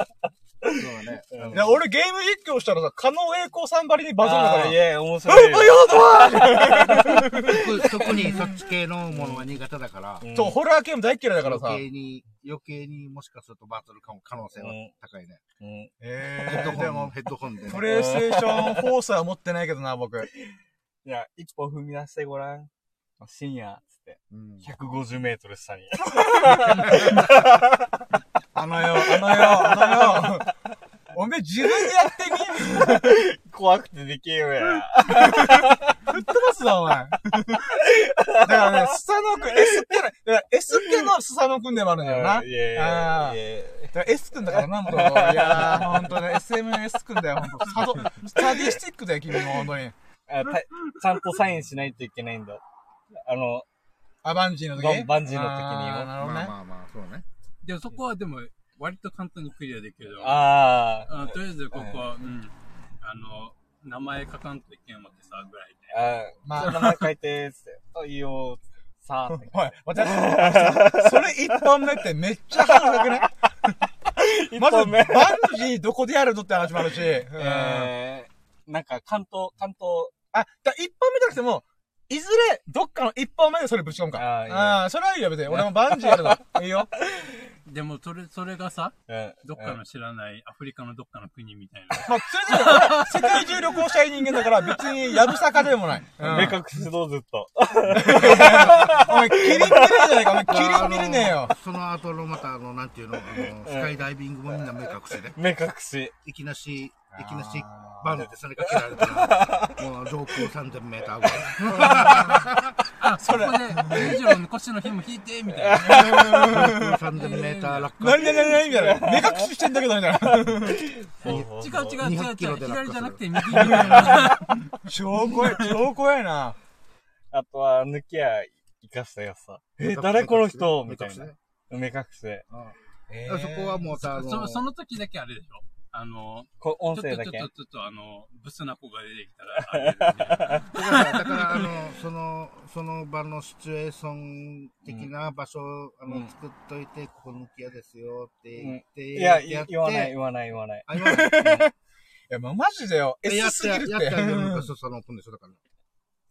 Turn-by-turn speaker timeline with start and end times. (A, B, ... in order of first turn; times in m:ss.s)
0:00.6-0:01.8 A
0:00.6-0:01.8 B
0:01.5-0:08.4 C
0:04.2-0:08.3 A
0:07.4-0:10.2 B
0:09.1-0:09.4 A
0:10.2-0:10.6 A
0:10.3-0:11.8 C
0:11.4-0:15.4 B
0:14.6-0:14.9 A
0:15.6-0:15.9 A
0:16.0-0:17.1 C
0:16.4-0:18.0 B
0:17.7-0:20.3 C
0:17.8-0:18.9 A
0:21.0-0:22.7 A
0:23.2-0:27.8 A
0:24.3-0:24.7 B
0:26.2-0:27.2 C
0:28.5-0:30.5 C
0:29.0-0:30.5 A
0:31.1-0:33.2 C
0:31.7-0:36.0 A
0:35.0-0:37.8 C
0:37.6-0:38.9 A
0:38.4-0:43.4 C
0:42.0-0:46.4 A
0:43.9-0:49.9 C
0:48.4-0:48.7 A
0:50.3-0:52.6 A
0:53.1-0:53.6 A
0:54.2-0:56.5 C
0:54.7-0:56.1 A
0:56.2-0:57.2 B
0:57.6-1:06.1 D
1:00.2-1:02.1 A
1:05.9-1:11.7 A
1:06.4-1:07.1 C
1:09.3-1:13.8 C
1:12.6-1:13.3 A
1:14.1-1:15.6 A
1:14.6-1:17.9 C
1:17.3-1:20.1 A
1:20.3-1:26.9 C
1:24.1-1:24.8 A
1:25.5-1:26.4 A
1:27.0-1:27.5 A
1:27.6-1:33.8 D
1:29.1-1:29.8 A
1:32.1-1:36.6 C
1:36.2-1:40.6 A
1:38.0-1:41.5 C
1:38.4-1:38.7 B
1:40.4-1:45.4 B
1:43.3-1:46.1 A
1:46.2-1:52.8 B
1:47.1-1:48.2 C
1:48.6-1:49.8 A
1:51.7-1:52.4 C
1:53.0-1:56.5 D
1:53.2-1:54.3 C
1:55.5-1:56.6 A
1:55.8-1:57.0 C
1:56.2-1:58.6 B
1:57.1-1:57.9 D
1:58.0-2:00.9 C
1:58.2-1:59.5 A
2:00.5-2:02.0 A
2:01.2-2:04.3 B
2:01.2-2:04.8 D
2:03.8-2:04.2 C
2:03.9-2:04.3 A
2:04.8-2:06.6 C
2:05.4-2:05.8 D
2:07.3-2:12.4 A
2:09.8-2:11.4 B
2:12.5-2:14.6 B
2:13.1-2:13.8 C
2:13.9-2:21.0 D
2:16.6-2:17.5 A
2:19.6-2:21.4 A
2:20.7-2:30.2 B
2:26.0-2:26.3 A
2:28.6-2:31.5 A
2:30.9-2:31.7 B
2:30.9-2:31.7 C
2:32.3-2:34.7 C
2:33.2-2:35.6 B